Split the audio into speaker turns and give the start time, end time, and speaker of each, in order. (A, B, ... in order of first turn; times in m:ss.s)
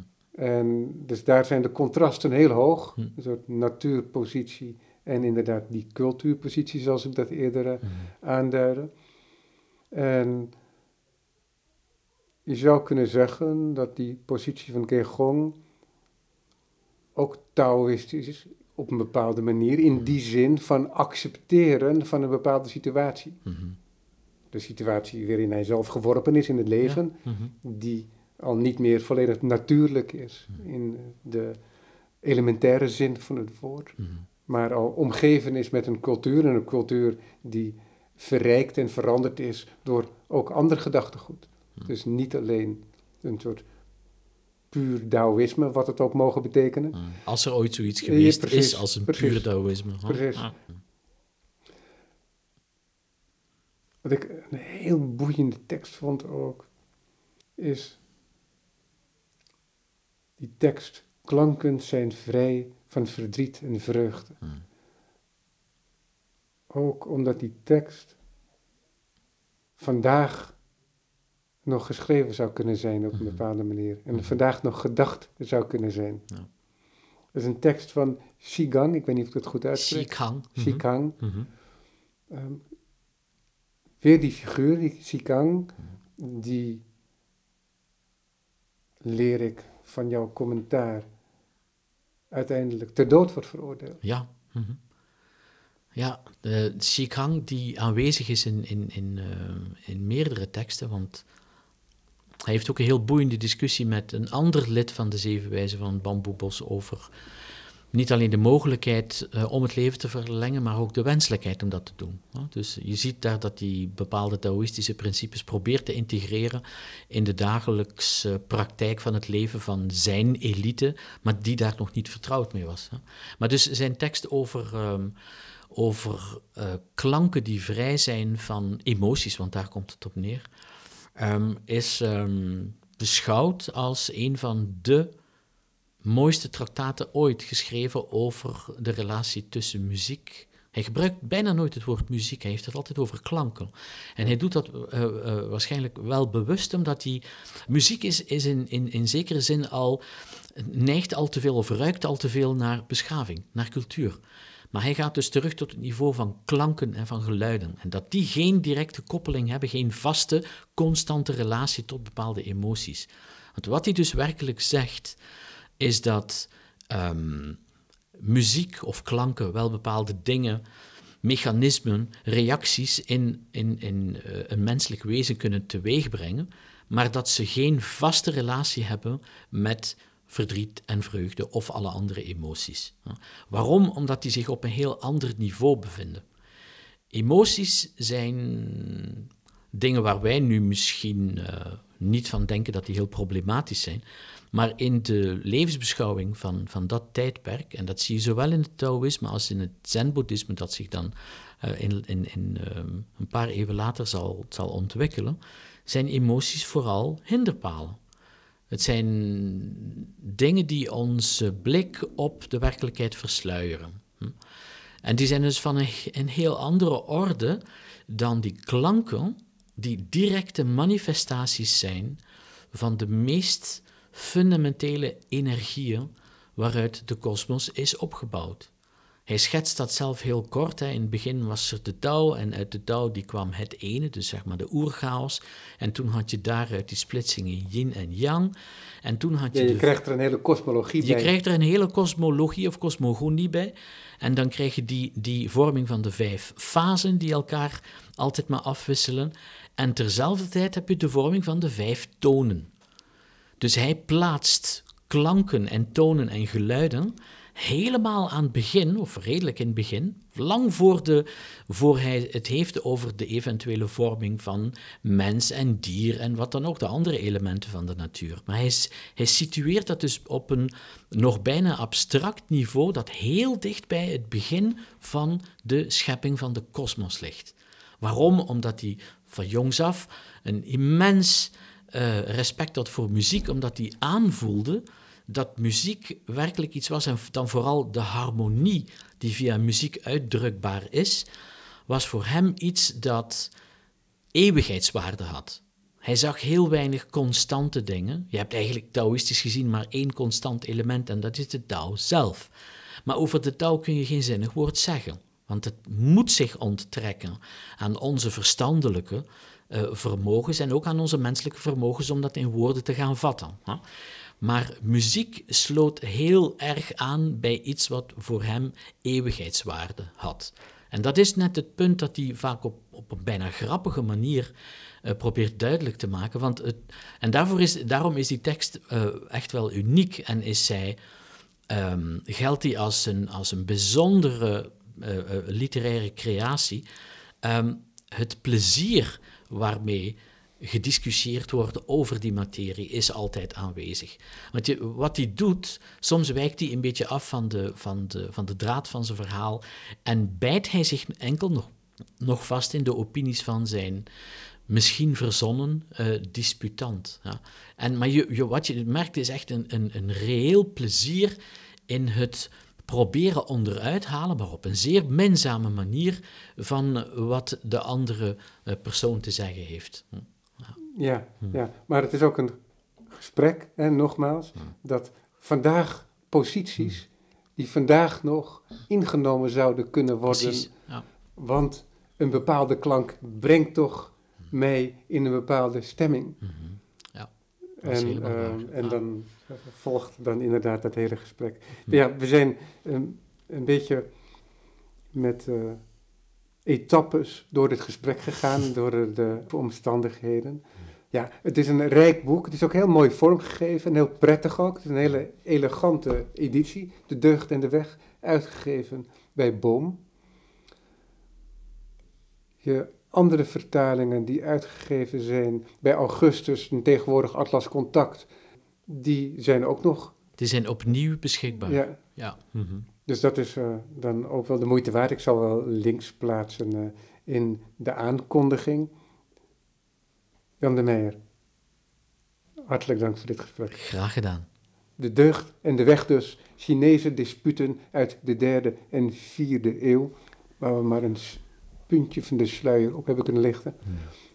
0:00.4-0:08.9 A
0:09.9-0:10.5 A
0:12.5-0:15.6 A
0:17.2-0:23.4 A
0:23.5-0:23.8 B
0:24.5-0:31.6 A
0:26.8-0:27.5 B
0:32.2-0:34.0 A
0:34.5-0:43.6 A
0:44.7-0:47.1 A
0:47.0-0:50.6 B
0:48.0-0:49.5 A
0:50.0-0:50.5 A
0:54.0-0:56.7 A
0:57.6-0:58.0 A
1:00.4-1:04.4 A
1:06.7-1:08.2 A
1:09.8-1:10.6 A
1:11.7-1:16.2 A
1:17.3-1:21.2 A
1:19.7-1:21.5 B
1:22.3-1:22.6 A
1:24.0-1:26.8 A
1:29.0-1:31.1 A
1:32.3-1:34.0 A
1:34.0-1:34.8 B
1:36.0-1:41.2 B
1:42.5-1:47.1 B
1:47.9-2:05.2 B
2:05.7-2:10.5 B
2:11.2-2:15.1 B
2:16.0-2:34.2 B
2:34.7-2:45.2 B
2:45.8-2:47.6 B
2:48.2-2:50.6 B
2:51.2-3:06.2 B
3:07.1-3:28.0 B
3:28.7-3:34.4 B
3:35.0-3:42.2 B
3:42.7-3:48.7 B
3:49.3-3:59.9 B
3:59.5-4:01.3 A
4:01.0-4:12.7 B
4:13.6-4:51.3 B
4:51.9-4:53.5 B
4:54.4-5:02.5 B
5:03.0-5:13.8 B
5:14.4-5:24.5 B
5:25.0-5:31.0 B
5:31.7-5:36.8 B
5:37.4-5:54.1 B
5:54.7-6:01.4 B
6:01.9-6:10.7 B
6:10.8-6:12.6 A
6:13.1-6:20.7 A
6:20.3-6:21.0 B
6:21.4-6:26.4 A
6:26.4-6:27.3 B
6:27.8-6:34.1 A
6:27.8-6:29.0 B
6:35.1-6:35.9 A
6:36.6-6:50.0 A
6:52.6-6:58.3 A
6:58.9-7:00.2 A
7:00.4-7:02.9 B
7:01.6-7:02.0 A
7:03.1-7:08.9 A
7:10.6-7:11.2 A
7:12.7-7:13.8 A
7:13.7-7:14.5 B
7:15.0-7:23.9 A